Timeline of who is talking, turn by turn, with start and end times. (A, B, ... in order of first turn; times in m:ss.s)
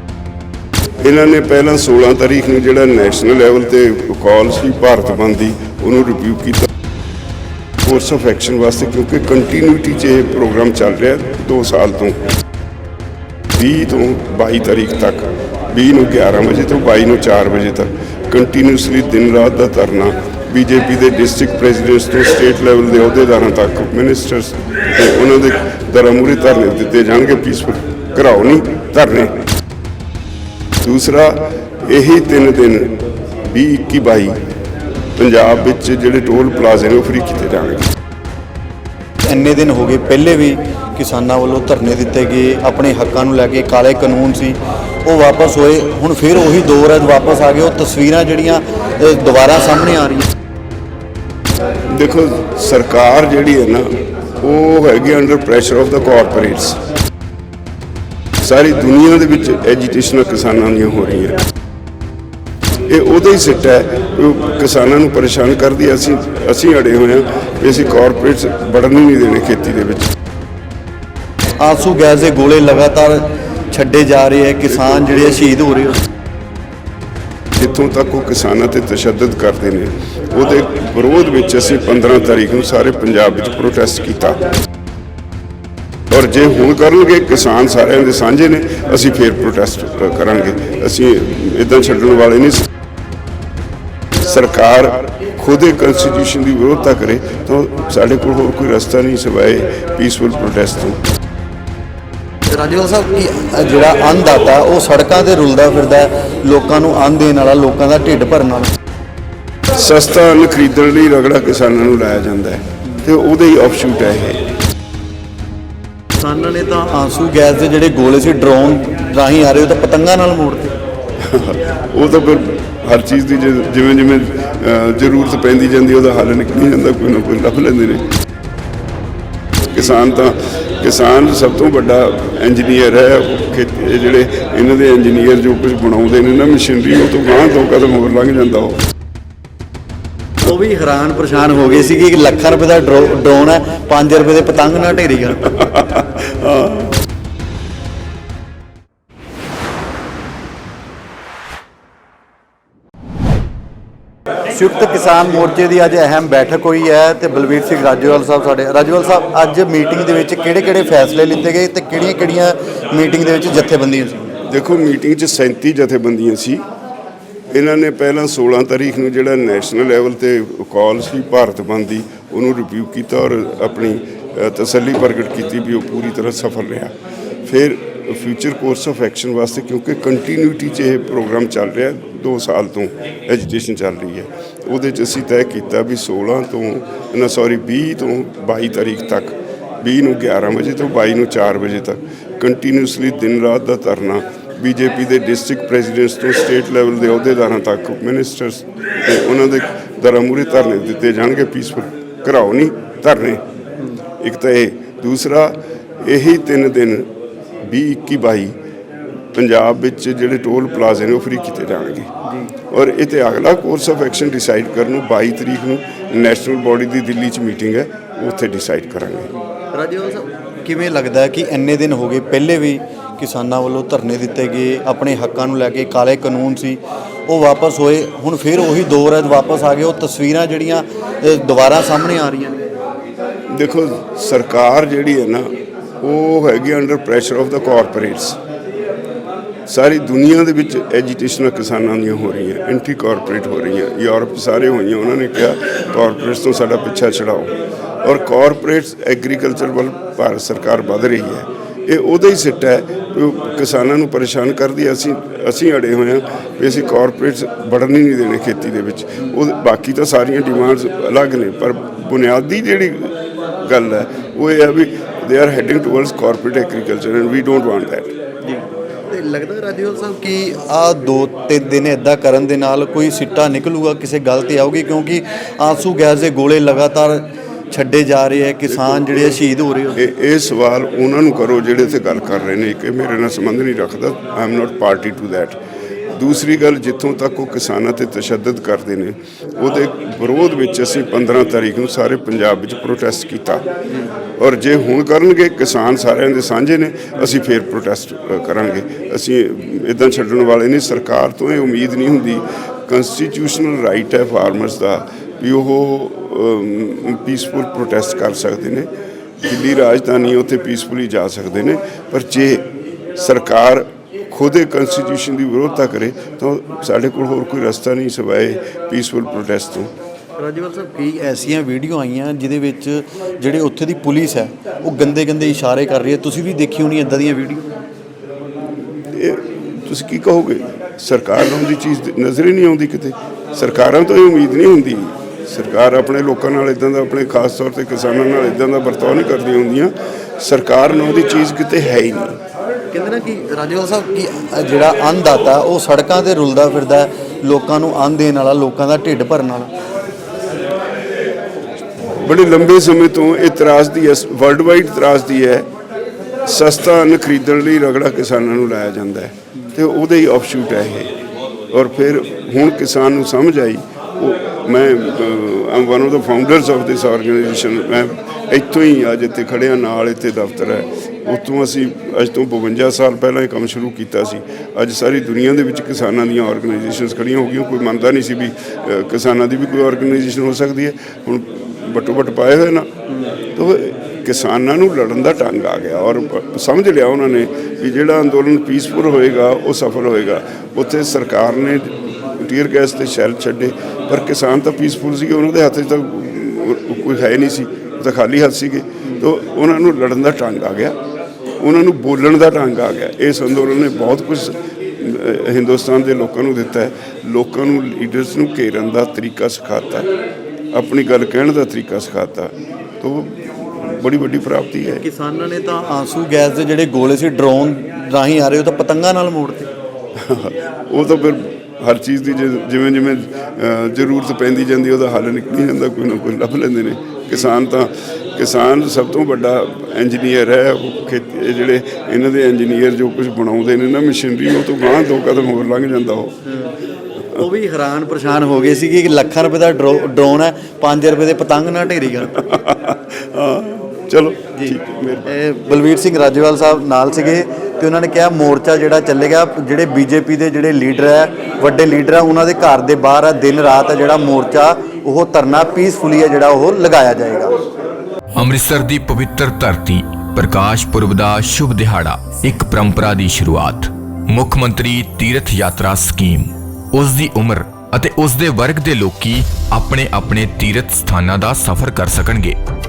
0:01.0-0:06.7 A
0:07.8-0:12.2 A
0:13.5-0:29.4 A
0:30.8-0:34.4 A
0:35.2-0:37.9 A
0:39.2-0:50.3 B
0:51.9-0:56.8 A
0:58.4-1:01.4 A
1:02.9-1:10.1 A
1:11.6-1:16.0 B
1:17.5-1:24.4 A
1:26.1-1:32.7 A
1:34.2-1:41.0 A
1:42.5-1:48.7 B
1:49.7-1:54.4 A
1:56.2-2:00.7 B
2:01.2-2:08.1 A
2:09.7-2:18.8 A
2:20.4-2:25.5 B
2:25.5-2:26.9 A
2:34.5-2:44.3 B
2:44.4-2:46.6 A
2:47.5-2:56.9 A
2:57.4-3:23.4 A
3:24.1-3:27.1 A
3:27.6-3:28.5 A
3:29.3-3:39.3 A
3:32.2-3:32.5 B
3:39.7-3:52.6 B
3:53.5-3:58.4 A
3:59.7-4:28.2 A
4:28.4-4:40.0 B
4:38.7-4:39.3 A
4:40.0-4:45.6 A
4:46.1-4:53.7 A
4:54.3-5:19.9 A
5:20.4-5:27.7 B
5:28.9-5:42.4 A
5:42.9-5:49.7 B
5:52.2-5:55.7 A
5:56.4-6:01.1 A
6:01.7-6:41.0 A
6:41.6-6:50.1 A
6:50.7-6:55.0 A
6:55.0-6:59.7 B
7:00.2-7:16.4 A
7:16.4-7:16.7 B
7:17.3-7:22.4 B
7:22.3-7:25.3 A
7:24.6-7:37.5 B
7:38.4-7:52.6 C